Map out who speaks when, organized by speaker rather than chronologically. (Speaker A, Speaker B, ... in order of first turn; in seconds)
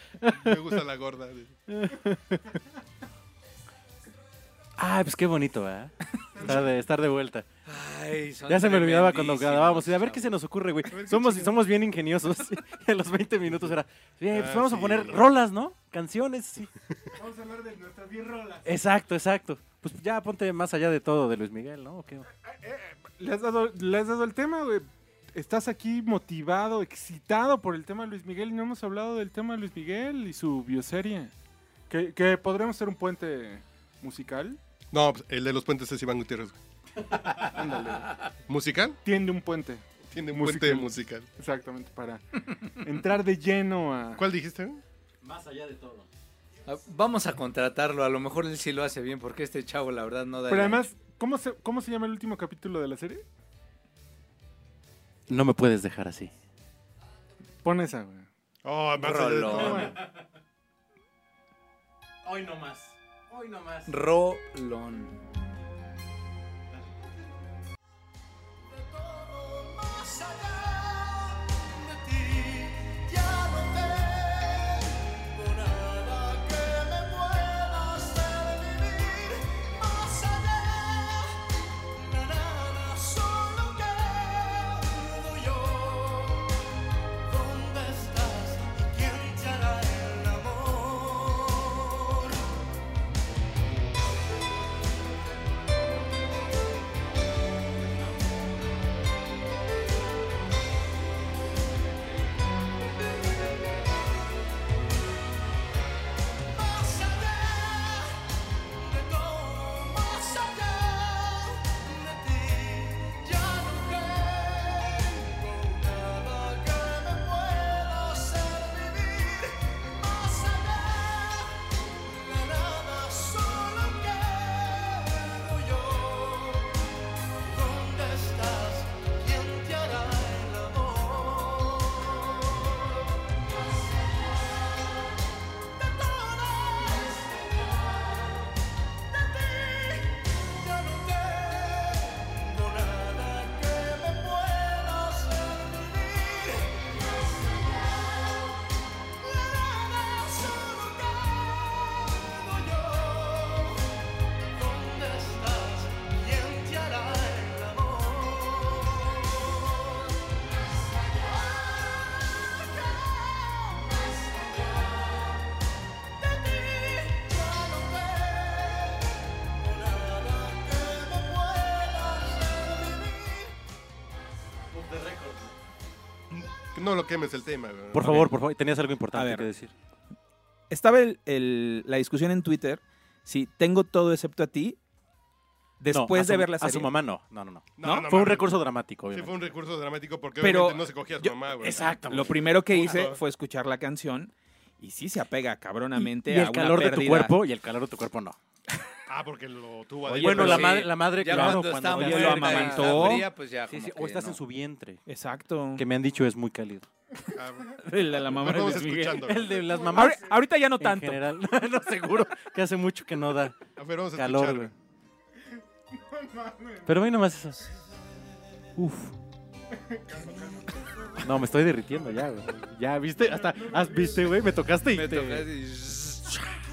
Speaker A: 0.2-0.8, 1.7-2.5, 4.8-7.5, 8.5-16.7, 18.6-22.3, 37.1-37.4, 45.2-46.1, 55.3-56.3, 59.7-60.2, 62.2-63.9, 174.7-175.5, 177.9-179.7, 185.9-189.4, 191.6-192.4, 195.9-198.4, 200.1-205.0, 205.8-206.9, 209.2-213.6, 214.1-214.7, 216.8-217.7, 218.8-219.2, 221.2-225.5
Speaker B: 0.3-1.5, 10.9-11.6, 14.3-15.2, 34.9-36.6, 38.5-39.0, 40.1-41.3, 44.2-44.8, 58.6-59.9, 176.3-178.3, 187.8-188.6, 189.1-191.9, 192.7-193.2, 199.1-200.9, 207.3-209.7, 213.8-214.7
Speaker C: 7.7-10.3, 46.7-50.9, 59.0-60.0, 63.9-65.2, 200.2-204.4, 224.9-226.3
Speaker D: 17.1-18.7, 22.4-31.3, 31.9-34.6, 37.4-38.1, 39.0-44.2, 50.5-53.2, 57.6-58.3, 59.0-60.0, 209.7-210.0, 216.0-216.9, 219.8-220.7, 223.2-224.5
Speaker E: 68.7-86.5, 87.2-92.5, 106.4-126.8, 127.4-133.2, 133.8-135.1, 135.8-138.5, 139.1-148.7, 149.2-160.3, 160.8-165.6, 166.2-173.5
Speaker F: 179.1-179.5, 180.7-184.8, 185.8-186.9, 187.8-188.1, 190.4-190.9, 192.0-197.4, 200.1-200.5, 201.2-203.3, 205.1-205.8, 207.8-209.3, 209.9-211.2